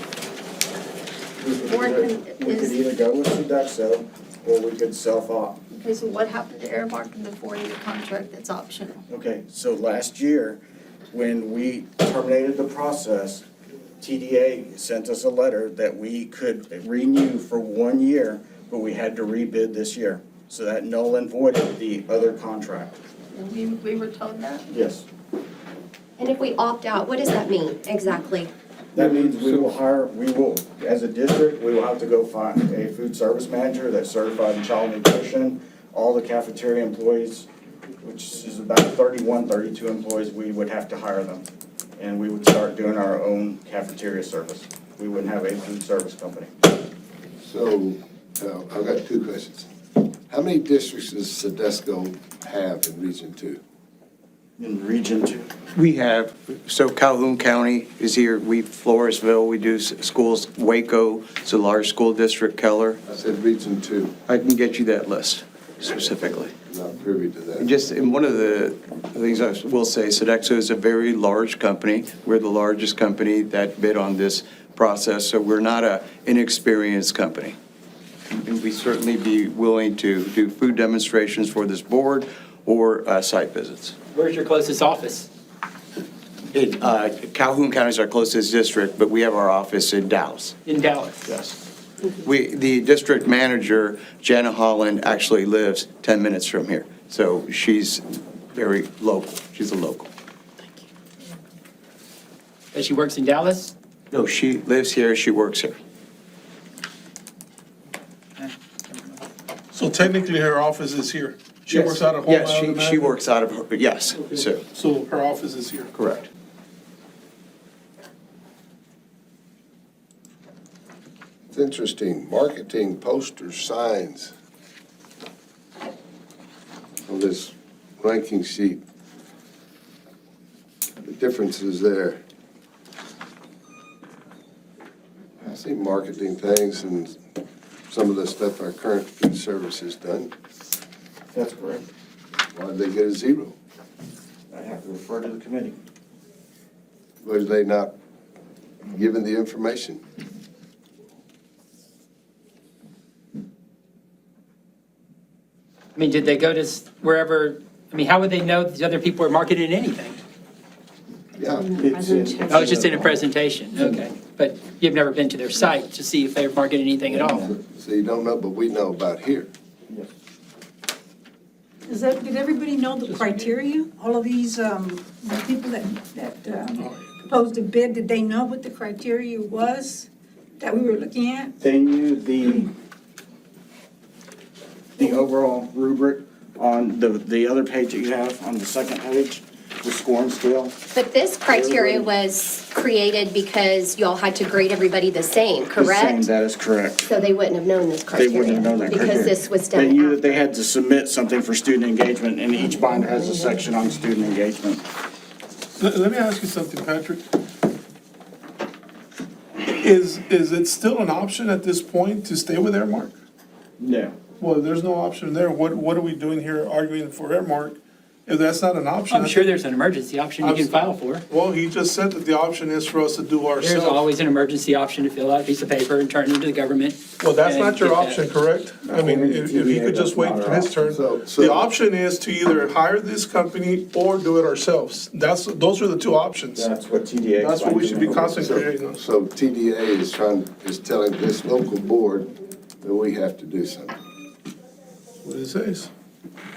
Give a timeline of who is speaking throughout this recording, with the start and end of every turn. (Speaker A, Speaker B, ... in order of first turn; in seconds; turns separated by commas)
Speaker A: 1.4-5.6, Speaker B: 1.6-2.8, Speaker B: 5.7-9.0, Speaker A: 9.1-10.6, Speaker A: 11.1-13.4, Speaker A: 14.0-23.0, Speaker B: 23.3-24.6, Speaker A: 24.7-25.1, Speaker C: 26.2-28.5, Speaker A: 28.9-37.5, Speaker A: 38.0-41.5, Speaker A: 42.0-46.5, Speaker D: 47.4-49.7, Speaker D: 50.3-53.6, Speaker A: 54.6-55.5, Speaker E: 55.8-63.0, Speaker D: 63.1-64.1, Speaker E: 64.3-66.5, Speaker D: 66.7-67.7, Speaker E: 67.6-77.5, Speaker E: 78.3-83.9, Speaker F: 84.1-85.3, Speaker E: 86.5-90.5, Speaker F: 90.7-91.3, Speaker E: 91.3-91.5, Speaker E: 92.2-98.0, Speaker E: 98.5-100.1, Speaker F: 102.7-103.7, Speaker E: 104.1-105.8, Speaker G: 109.7-113.2, Speaker E: 111.7-114.6, Speaker G: 114.3-115.9, Speaker E: 116.0-116.3, Speaker D: 121.5-124.3, Speaker D: 127.1-128.8, Speaker D: 131.0-132.2, Speaker D: 135.4-137.2, Speaker D: 137.9-140.3, Speaker A: 141.3-141.8, Speaker D: 142.5-143.6, Speaker A: 144.5-145.8, Speaker D: 147.2-147.9, Speaker D: 148.9-150.0, Speaker F: 155.9-160.2, Speaker D: 161.4-161.7, Speaker A: 161.7-163.9, Speaker H: 162.0-162.3, Speaker F: 162.5-167.5, Speaker A: 167.2-167.5, Speaker D: 167.5-169.5, Speaker H: 171.9-181.5, Speaker F: 173.1-173.5, Speaker G: 176.8-177.1, Speaker A: 181.6-182.7, Speaker A: 185.0-190.8, Speaker C: 190.9-196.3, Speaker A: 191.5-192.2, Speaker A: 195.7-197.2, Speaker C: 197.1-200.4, Speaker A: 198.1-204.8, Speaker G: 205.8-207.2, Speaker G: 209.6-213.2, Speaker A: 213.8-214.2, Speaker G: 214.4-219.5, Speaker F: 219.1-221.2, Speaker G: 220.4-224.1, Speaker F: 223.6-228.2, Speaker G: 227.2-236.7, Speaker A: 229.0-230.7, Speaker D: 230.8-231.7, Speaker A: 236.6-238.6, Speaker G: 237.4-239.0, Speaker D: 238.9-243.9, Speaker G: 245.2-245.9